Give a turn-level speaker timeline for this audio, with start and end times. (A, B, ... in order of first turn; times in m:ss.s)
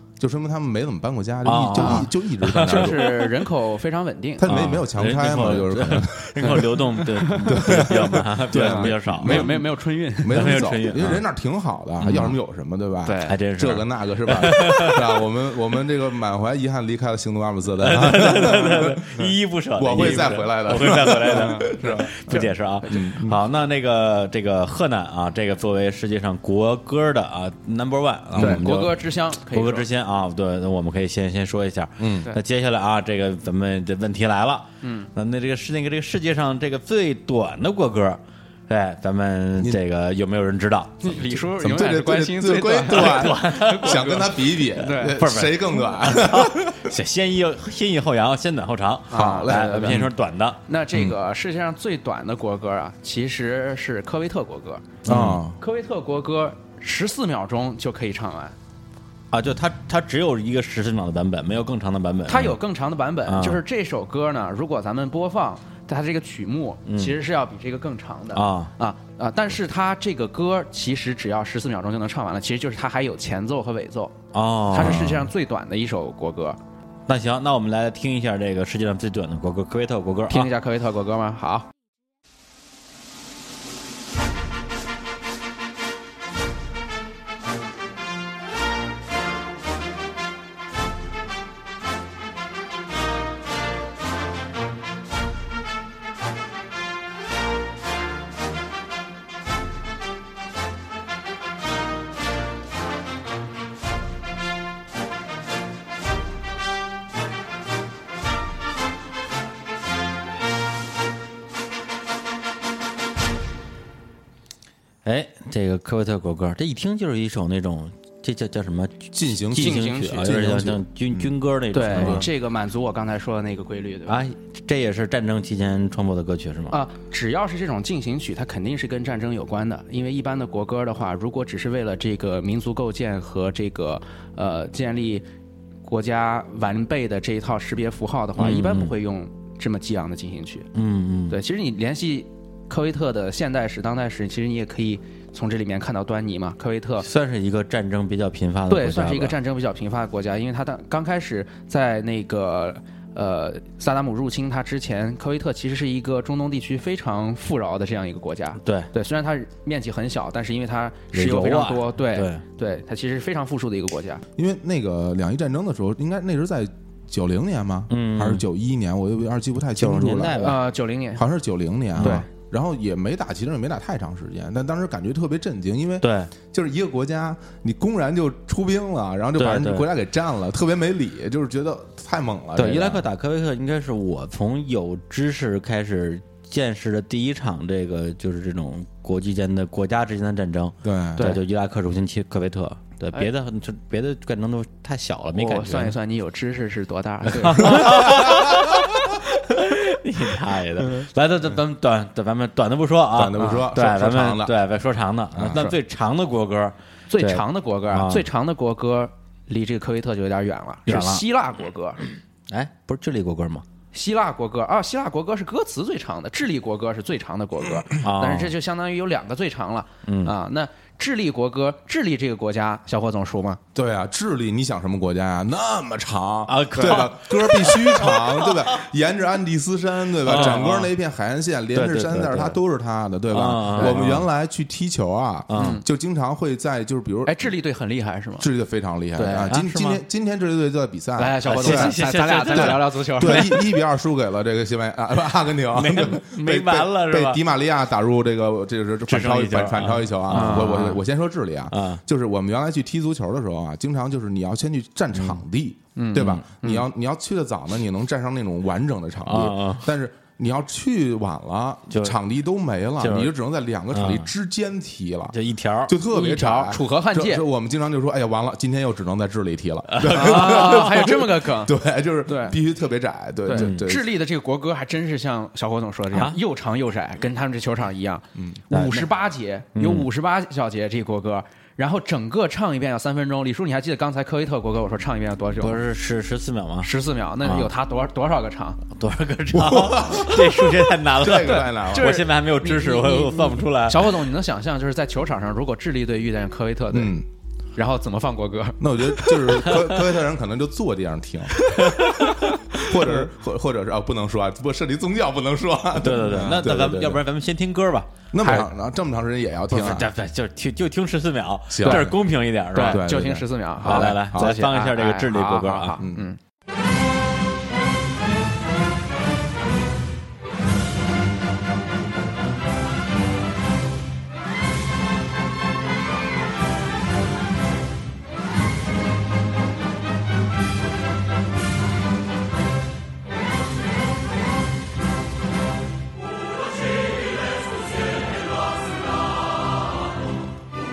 0:00.2-0:03.3 A
0:01.4-0:03.1 B
0:01.7-0:04.5 C
0:04.4-0:06.9 A
0:04.5-0:09.6 B
0:06.4-0:08.0 C
0:07.4-0:19.0 A
0:08.5-0:10.6 C
0:10.3-0:11.2 B
0:12.0-0:12.3 B
0:13.0-0:13.4 C
0:13.3-0:15.1 B
0:17.8-0:41.2 B
0:19.8-0:23.4 A
0:20.0-0:20.2 C
0:21.2-0:23.1 C
0:28.3-0:28.6 A
0:28.4-0:29.9 C
0:32.0-0:32.3 A
0:34.8-0:35.1 C
0:41.0-0:45.2 C
0:41.4-0:46.9 A
0:42.9-0:44.2 B
0:45.1-0:50.6 B
0:49.1-0:50.1 C
0:49.1-0:50.1 A
0:50.7-0:55.0 C
0:55.0-0:55.4 B
0:55.1-0:55.6 A
0:55.6-0:58.6 C
0:59.3-1:02.6 B
1:02.3-1:14.2 C
1:03.3-1:03.6 B
1:06.9-1:07.2 B
1:08.3-1:08.7 B
1:14.3-1:15.3 B
1:14.7-1:16.6 C
1:17.1-1:20.5 B
1:20.3-1:21.7 C
1:55.0-2:02.3 B
1:59.1-2:01.4 A
1:59.6-2:00.3 C
2:01.7-2:04.2 C
2:01.9-2:02.3 A
2:04.1-2:06.8 B
2:06.7-2:15.2 C
2:15.9-2:20.7 C
2:18.4-2:19.0 B
2:20.8-2:21.4 B
2:21.3-2:27.1 C
2:27.0-2:29.4 B
2:28.7-2:44.2 C
2:38.6-2:38.9 B
2:41.1-2:42.4 B
2:44.4-2:50.6 A
2:47.9-2:48.4 B
2:49.8-2:50.6 B
2:50.4-2:51.2 C
2:51.2-3:03.0 A
2:52.0-2:52.2 B
2:52.0-2:52.3 C
2:56.0-2:56.3 B
2:59.4-2:59.9 B
3:02.6-3:16.0 B
3:10.8-3:11.3 A
3:15.3-3:18.1 C
3:17.3-3:28.3 B
3:17.7-3:18.6 A
3:23.1-3:24.6 A
3:23.4-3:23.7 C
3:25.3-3:25.7 A
3:27.1-3:32.0 C
3:30.9-3:31.2 B
3:32.5-3:33.6 B
3:33.9-3:43.6 C
3:38.0-3:38.6 B
3:40.1-3:40.3 B
3:43.8-3:57.4 A
3:46.5-3:48.2 B
3:46.8-3:47.0 C
3:50.3-3:50.9 B
3:50.3-3:50.7 C
3:51.7-3:52.6 B
3:53.3-3:54.2 B
3:55.5-3:55.8 B
3:55.6-3:55.8 C
3:57.3-3:58.5 C
3:58.4-4:02.0 A
3:59.2-3:59.6 C
3:59.5-4:00.0 B
4:01.2-4:03.6 C
4:01.5-4:03.6 B
4:02.5-4:34.1 A
4:05.7-4:07.4 B
4:09.1-4:11.0 B
4:10.3-4:11.0 C
4:11.7-4:12.0 B
4:16.0-4:16.8 C
4:19.2-4:19.9 B
4:21.9-4:22.2 B
4:23.0-4:23.3 B
4:23.9-4:24.3 B
4:25.3-4:25.9 B
4:26.1-4:27.4 C
4:29.9-4:30.4 B
4:30.0-4:32.6 C
4:33.5-4:45.8 C
4:33.6-4:33.8 B
4:36.1-4:36.4 B
4:38.4-4:38.6 A
4:38.7-4:39.1 B
4:39.8-4:40.1 B
4:45.6-4:46.9 B
4:46.8-4:48.8 C
4:47.4-4:47.7 B
4:49.0-4:54.1 B
4:49.5-4:52.2 A
4:51.6-4:57.2 C
4:56.9-4:57.3 A
4:57.8-4:59.6 C
4:58.8-5:02.0 A
5:01.7-5:03.2 C
5:01.8-5:02.1 B
5:02.7-5:07.2 A
5:06.0-5:08.1 B
5:08.3-5:10.1 A
5:08.4-5:08.7 C
5:09.7-5:13.0 B
5:11.7-5:12.2 A
5:11.8-5:12.1 C
5:12.8-5:16.4 C
5:12.9-5:14.6 A
5:13.8-5:16.0 B
5:16.0-5:16.3 A